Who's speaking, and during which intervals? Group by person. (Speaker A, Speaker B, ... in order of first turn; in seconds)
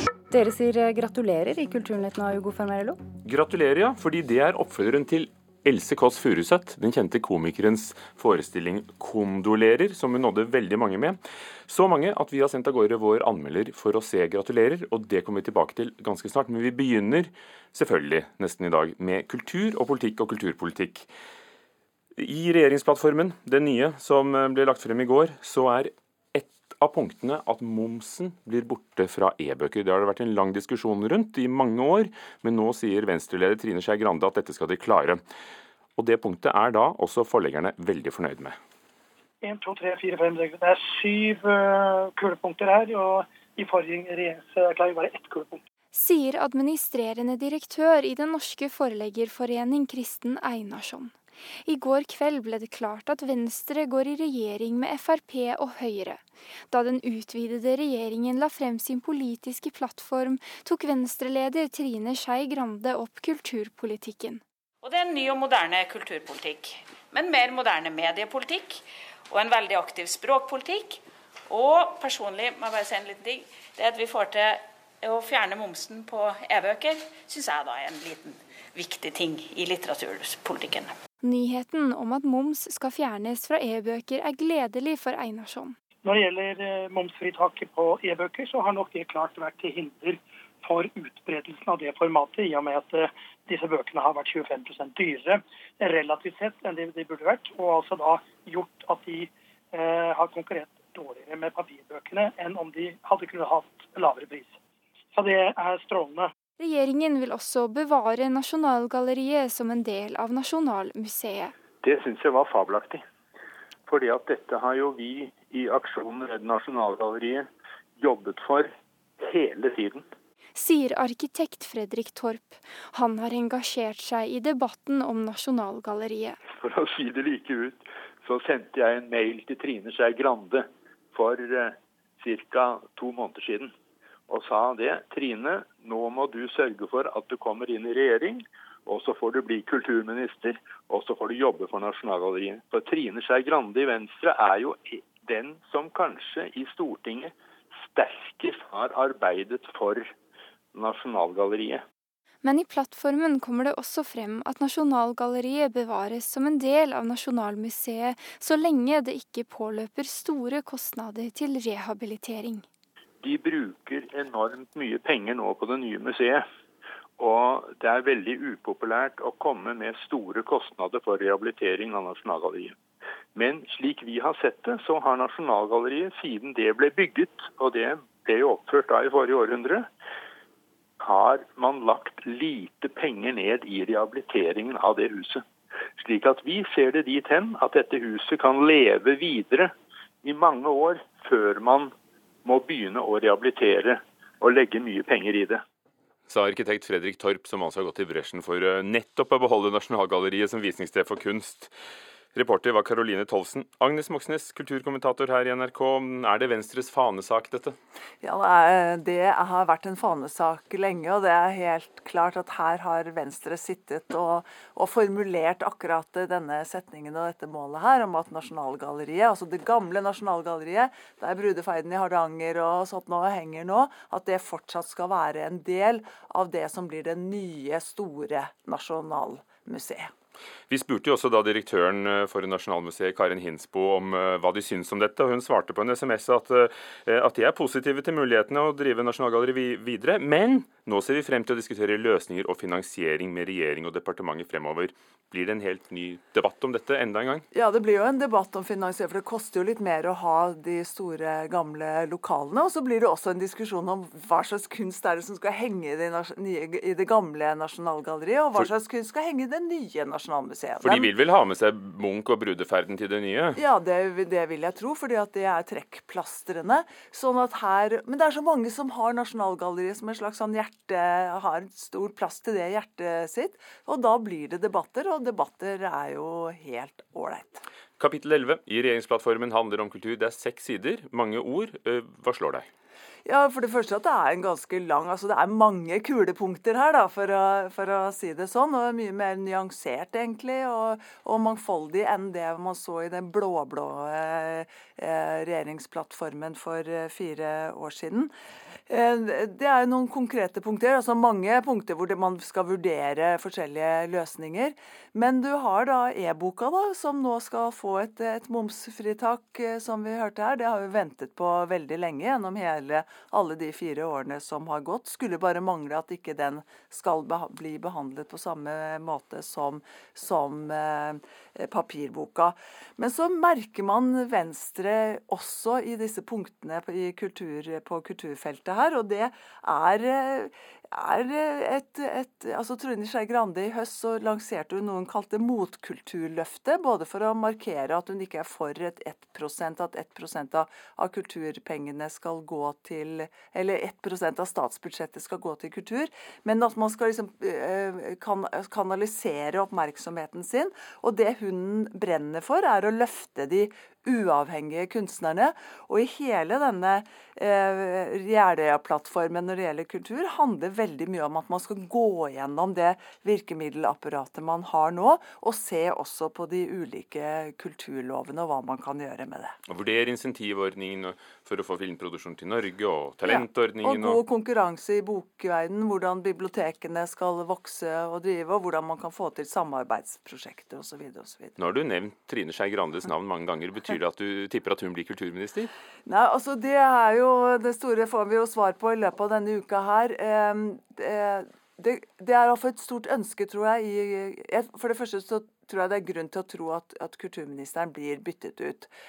Speaker A: 0.3-3.0
Speaker B: 3.2-21.1, 22.2-35.2, 36.0-38.6, 196.3-201.7, 202.3-207.8, 230.7-247.4, 260.8-263.6, 278.0-282.7, 369.7-374.2, 381.6-385.7
Speaker C: 39.4-41.6, 42.2-45.6, 86.0-104.5, 105.2-106.3
Speaker D: 45.9-51.1, 51.7-64.4, 81.2-85.8, 106.6-111.5, 120.6-126.4, 152.4-162.7
Speaker E: 64.8-80.9
Speaker F: 111.8-113.0, 113.9-117.4, 118.0-118.7, 119.2-120.0, 126.6-133.7, 134.3-147.3, 147.9-150.0, 150.7-151.8, 163.2-166.4, 167.2-172.8, 173.4-179.8, 181.0-185.4, 186.0-189.7, 190.2-191.9, 192.4-195.6
Speaker G: 208.2-230.1, 247.5-261.1, 263.6-277.6, 283.2-298.3, 298.9-369.5, 373.9-381.5, 386.1-398.9